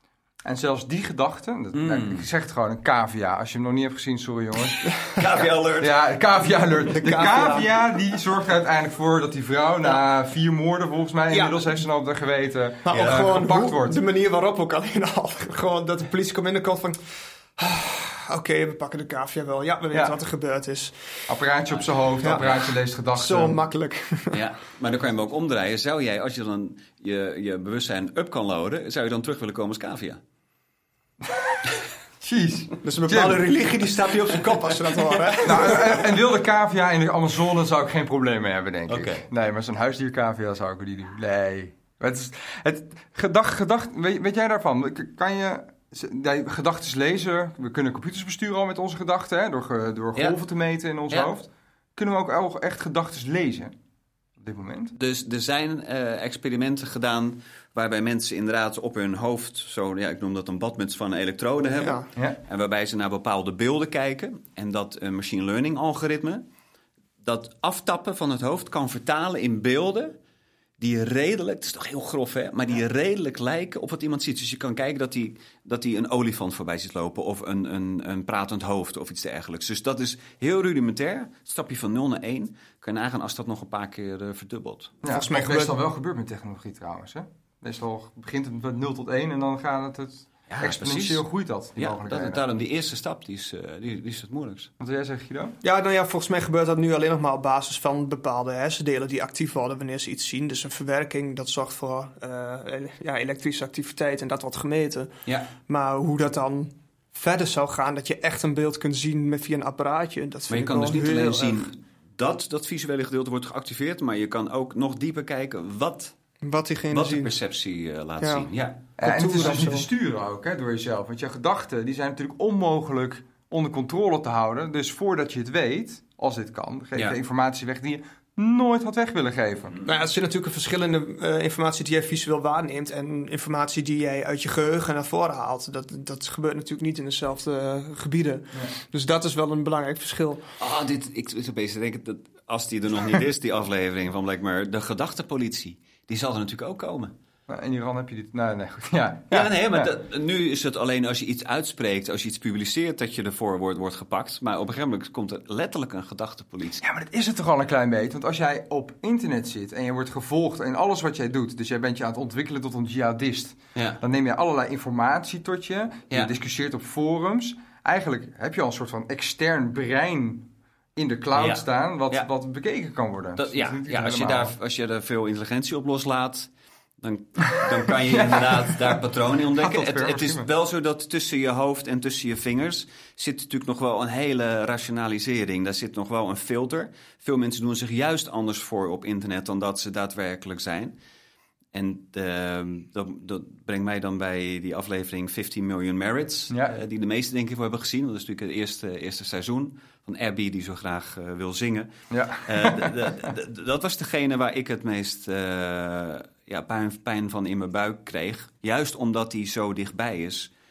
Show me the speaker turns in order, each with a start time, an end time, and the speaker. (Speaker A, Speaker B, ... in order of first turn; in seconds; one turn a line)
Speaker A: 0.4-5.1
Speaker B: 1.7-2.3
Speaker B: 5.2-6.0
Speaker A: 5.8-14.0
Speaker C: 6.9-7.7
Speaker C: 11.3-11.7
Speaker C: 12.8-21.3
Speaker B: 12.9-13.2
Speaker A: 21.3-23.6
Speaker B: 21.7-22.6
Speaker C: 22.2-22.5
Speaker C: 23.1-24.3
Speaker B: 24.3-30.2
Speaker A: 32.2-33.4
Speaker C: 32.8-35.9
Speaker A: 35.4-53.7
Speaker B: 38.9-39.3
Speaker A: 54.4-54.9
Speaker B: 54.9-66.4
Speaker C: 61.8-62.0
Speaker B: 67.2-70.2
Speaker B: 70.8-84.9
Speaker A: 85.0-92.4
Speaker C: 85.1-85.8
Speaker B: 90.5-91.2
Speaker B: 91.8-94.7
Speaker A: 94.8-95.5
Speaker C: 95.6-105.1
Speaker C: 105.7-111.7
Speaker B: 110.5-116.1
Speaker C: 116.4-117.3
Speaker B: 116.9-118.8
Speaker C: 118.2-118.5
Speaker A: 119.0-129.8
Speaker C: 119.0-119.9
Speaker C: 129.8-140.4
Speaker B: 140.6-147.1
Speaker A: 147.5-149.9
Speaker B: 149.3-156.8
Speaker A: 156.8-174.5
Speaker B: 163.8-164.0
Speaker B: 171.3-172.3
Speaker B: 173.4-190.9
Speaker A: 178.1-179.0
Speaker A: 179.6-180.5
Speaker B: 191.7-201.9
Speaker A: 202.1-202.9
Speaker B: 202.4-210.5